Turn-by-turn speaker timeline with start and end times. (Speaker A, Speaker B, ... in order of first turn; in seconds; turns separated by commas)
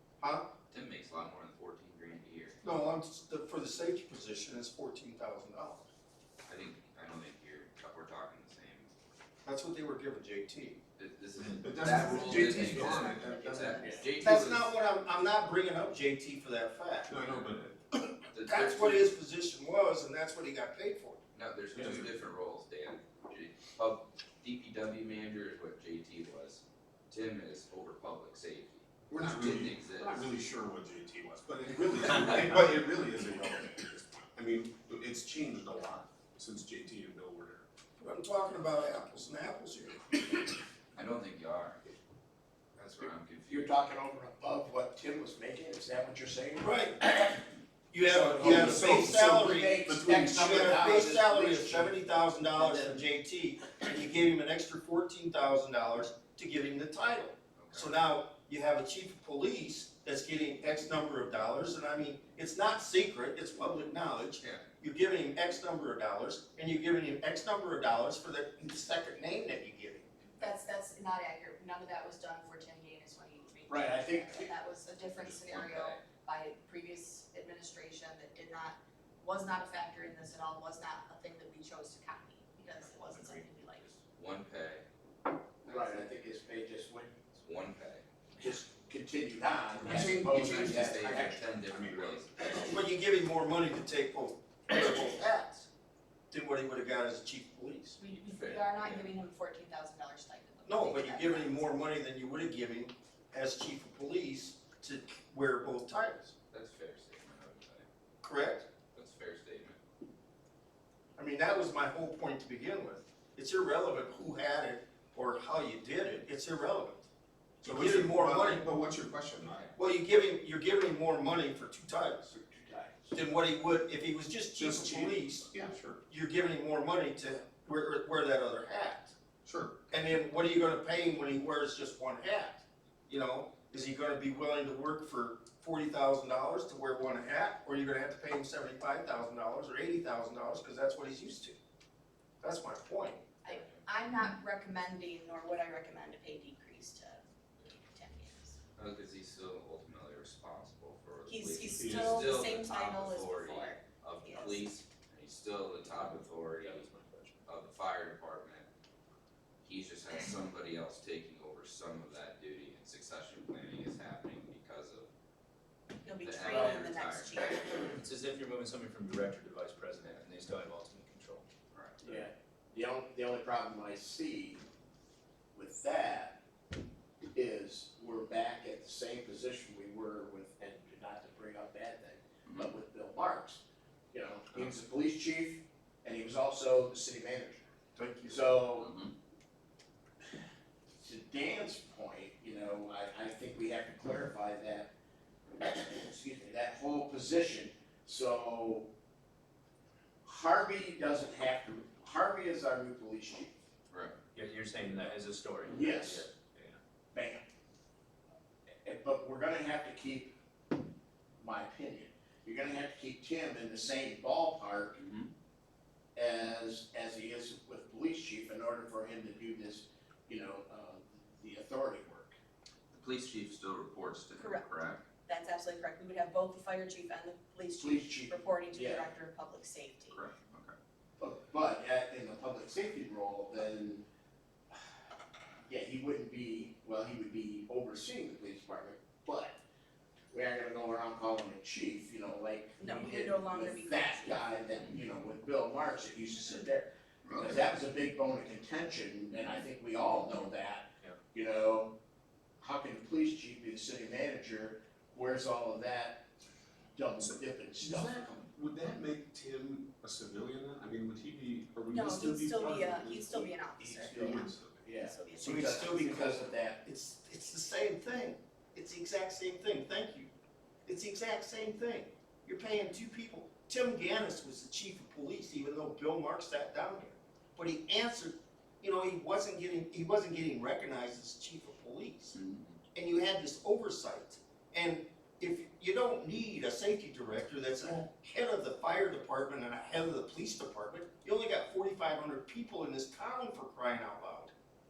Speaker A: 0.2-0.5, Speaker B: 0.7-2.6, Speaker A: 2.6-5.9, Speaker B: 6.5-8.9, Speaker A: 9.4-10.8, Speaker B: 11.0-14.7, Speaker C: 11.4-14.0, Speaker D: 11.9-14.1, Speaker A: 14.2-17.2, Speaker C: 17.1-17.9, Speaker B: 18.3-19.1, Speaker A: 18.4-21.2, Speaker B: 21.3-30.2, Speaker C: 21.8-22.1, Speaker C: 29.1-37.6, Speaker A: 38.0-40.2, Speaker B: 40.9-41.8, Speaker B: 42.8-43.8, Speaker E: 43.5-47.4, Speaker A: 46.6-47.0, Speaker A: 47.9-70.1, Speaker E: 48.0-52.0, Speaker C: 48.4-50.3, Speaker E: 52.6-53.0, Speaker B: 57.6-58.0, Speaker D: 70.4-83.9, Speaker E: 73.7-74.5, Speaker B: 75.2-76.0, Speaker B: 82.6-84.8, Speaker E: 85.7-87.1, Speaker B: 87.3-88.5, Speaker E: 88.4-91.4, Speaker B: 89.8-92.8, Speaker C: 89.8-92.6, Speaker A: 92.5-95.7, Speaker A: 96.3-98.0, Speaker D: 98.0-101.8, Speaker B: 98.1-99.1, Speaker A: 100.7-106.3, Speaker B: 106.5-107.9, Speaker A: 108.2-108.7, Speaker B: 108.9-109.8, Speaker A: 111.2-117.1, Speaker A: 117.6-118.8, Speaker C: 117.6-119.8, Speaker A: 119.8-122.3, Speaker E: 122.3-123.2, Speaker A: 123.1-125.5, Speaker C: 124.6-126.0, Speaker A: 126.1-129.2, Speaker C: 129.4-129.8, Speaker A: 129.9-141.6, Speaker A: 142.4-143.3, Speaker D: 143.4-148.6, Speaker B: 143.5-143.8, Speaker B: 148.8-156.9, Speaker D: 151.3-154.7, Speaker C: 151.8-152.4, Speaker C: 156.6-157.4, Speaker B: 157.4-158.7, Speaker B: 159.6-165.1, Speaker D: 166.1-167.9, Speaker B: 166.2-167.6, Speaker E: 166.4-166.8, Speaker F: 167.9-171.5, Speaker B: 171.7-172.2, Speaker E: 172.0-174.6, Speaker E: 175.5-176.4, Speaker E: 177.3-183.6, Speaker B: 182.4-182.7, Speaker E: 184.1-187.7, Speaker C: 188.0-188.4, Speaker E: 188.2-188.9, Speaker B: 188.8-189.1, Speaker E: 191.0-194.9, Speaker E: 195.6-198.9, Speaker E: 200.2-203.5, Speaker B: 203.9-204.2, Speaker F: 204.3-206.8, Speaker E: 205.7-206.3, Speaker E: 207.1-207.4, Speaker E: 208.8-210.3, Speaker E: 211.4-215.0, Speaker B: 215.0-215.3, Speaker E: 216.2-222.3, Speaker B: 222.9-225.0, Speaker D: 224.3-224.7, Speaker D: 225.2-230.2, Speaker E: 227.8-229.1, Speaker B: 230.1-230.8, Speaker E: 231.2-234.1, Speaker E: 235.7-239.6, Speaker E: 240.3-251.9, Speaker D: 242.8-244.7, Speaker E: 252.6-256.2, Speaker E: 256.9-258.4, Speaker C: 257.2-263.5, Speaker D: 261.9-265.7, Speaker E: 263.4-266.8, Speaker C: 264.1-264.9, Speaker A: 265.4-270.3, Speaker A: 270.9-282.4, Speaker B: 282.4-282.8, Speaker A: 282.9-294.5